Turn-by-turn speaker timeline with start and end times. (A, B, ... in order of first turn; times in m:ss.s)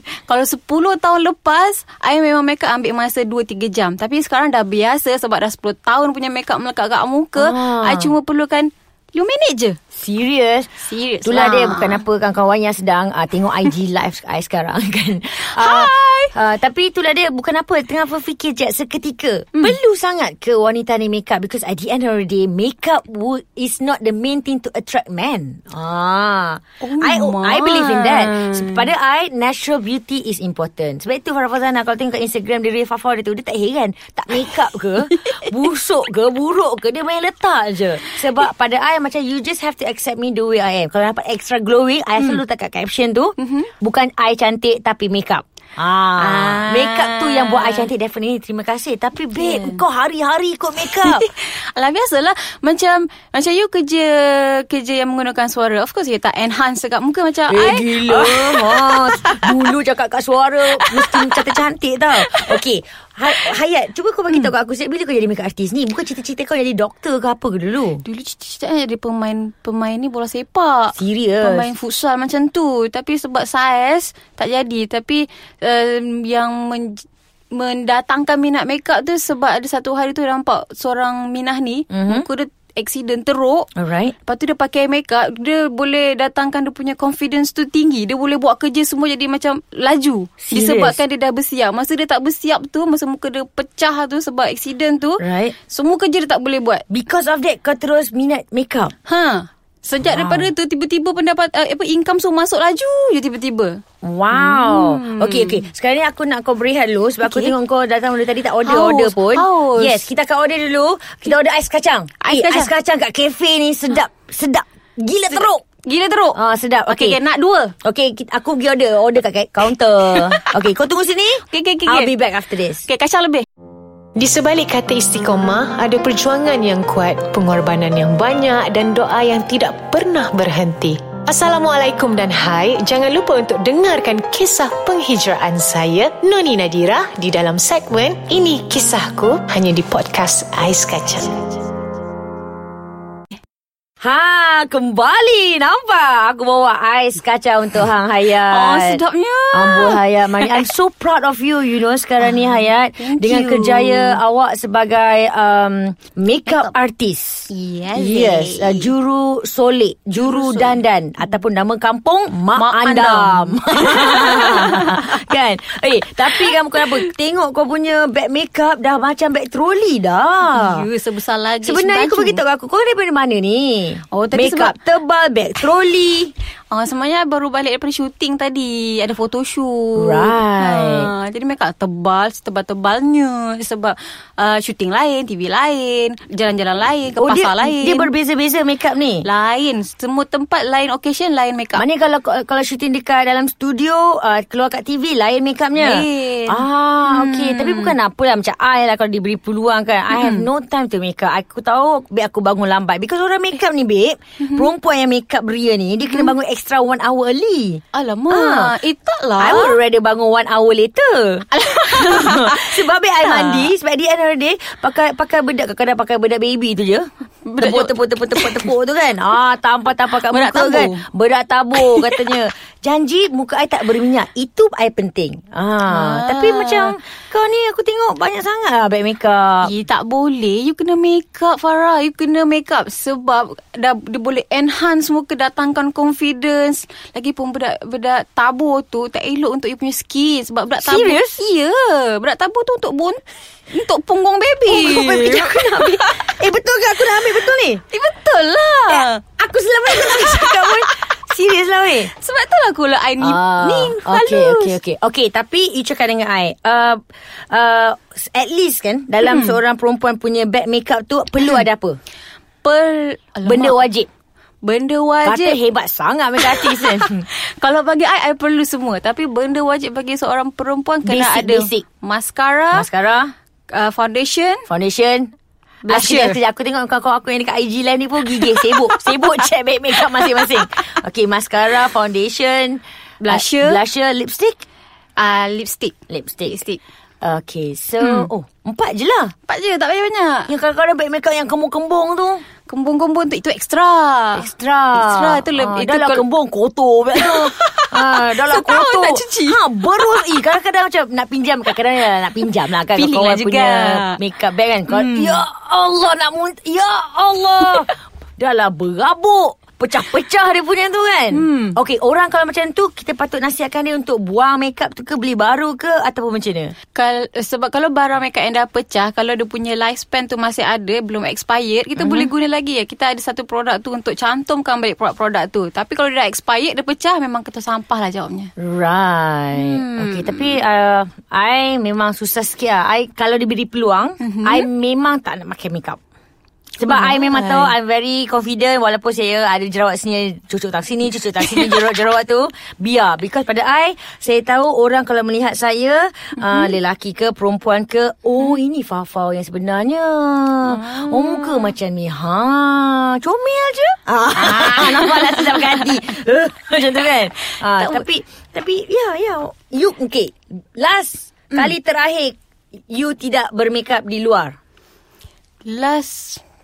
0:00.2-0:09.8 A
0:07.4-0:08.1 B
0:09.9-0:10.7 B
0:10.8-0:12.0 A
0:11.2-0:51.2 B
0:15.5-0:16.3 A
0:26.8-0:28.9 A
0:43.4-0:43.7 A
0:46.2-0:47.9 A
0:49.4-0:49.8 A
0:50.8-0:59.6 A
0:57.5-1:08.0 B
1:00.8-1:01.3 A
1:08.0-1:23.7 A
1:11.0-1:11.7 B
1:21.9-1:22.3 B
1:23.7-1:24.1 B
1:24.2-1:36.8 A
1:30.4-1:31.0 B
1:35.2-1:35.5 B
1:36.9-1:38.9 B
1:39.0-1:43.8 A
1:40.0-1:40.5 B
1:44.0-1:55.6 B
1:44.3-1:45.6 A
1:47.2-1:47.5 A
1:48.6-1:50.1 A
1:52.2-1:52.7 A
1:55.3-1:57.7 A
1:56.3-1:57.2 B
1:57.8-2:02.9 B
2:01.5-2:02.1 A
2:02.8-2:03.4 A
2:04.2-2:21.6 C
2:24.0-2:29.0 B
2:28.3-2:30.6 A
2:29.5-2:50.8 B
2:32.2-2:34.2 A
2:37.5-2:38.9 A
2:40.2-2:40.8 A
2:42.5-2:45.2 A
2:50.4-2:52.4 A
2:51.6-2:56.3 B
2:54.1-2:54.7 A
2:56.7-3:08.1 A
3:00.0-3:01.1 B
3:07.2-3:09.2 B
3:09.2-3:11.8 A
3:11.8-3:28.7 B
3:15.8-3:17.9 A
3:20.1-3:20.5 A
3:24.4-3:24.7 A
3:27.9-3:29.8 A
3:29.4-3:37.1 B
3:31.5-3:33.7 A
3:37.4-3:38.7 A
3:37.6-3:49.7 B
3:40.2-3:41.0 A
3:41.8-3:42.1 A
3:45.8-3:47.0 A
3:49.6-4:03.2 A
4:00.8-4:01.4 B
4:03.7-4:06.3 A
4:04.7-4:07.8 B
4:07.9-4:09.2 A
4:08.9-4:12.1 B
4:09.9-4:11.0 A
4:12.1-4:14.8 A
4:13.2-4:17.0 B
4:17.5-4:22.0 B
4:19.2-4:19.6 A
4:22.6-4:23.8 A
4:23.4-4:24.1 B
4:24.6-4:25.6 A
4:25.2-4:27.3 B
4:26.5-4:32.9 A
4:31.0-4:31.8 B
4:32.7-4:33.3 B
4:33.7-4:34.6 A
4:34.7-4:35.3 B
4:35.8-4:36.4 A
4:35.9-4:44.6 B
4:38.3-4:39.2 A
4:40.0-4:40.6 A
4:43.2-4:43.8 A
4:45.2-4:46.8 A
4:46.1-4:46.6 B
4:47.2-4:49.3 B
4:48.0-4:48.3 A
4:49.5-4:50.5 A
4:50.5-4:52.4 B
4:52.7-4:56.2 A
4:54.3-5:16.7 B
4:57.1-4:59.6 A
5:02.9-5:04.2 A
5:04.9-5:05.4 A
5:11.3-5:11.8 A
5:16.9-5:28.5 A
5:22.0-5:22.3 B
5:28.6-5:36.0 B
5:29.5-5:30.6 A
5:34.2-5:34.7 A
5:36.8-6:02.4 B
5:36.8-5:37.7 A
5:46.4-5:46.7 A
5:50.7-5:51.7 A
5:54.3-5:55.9 A
5:57.5-5:58.0 A
6:02.9-6:04.6 B
6:05.6-6:06.4 A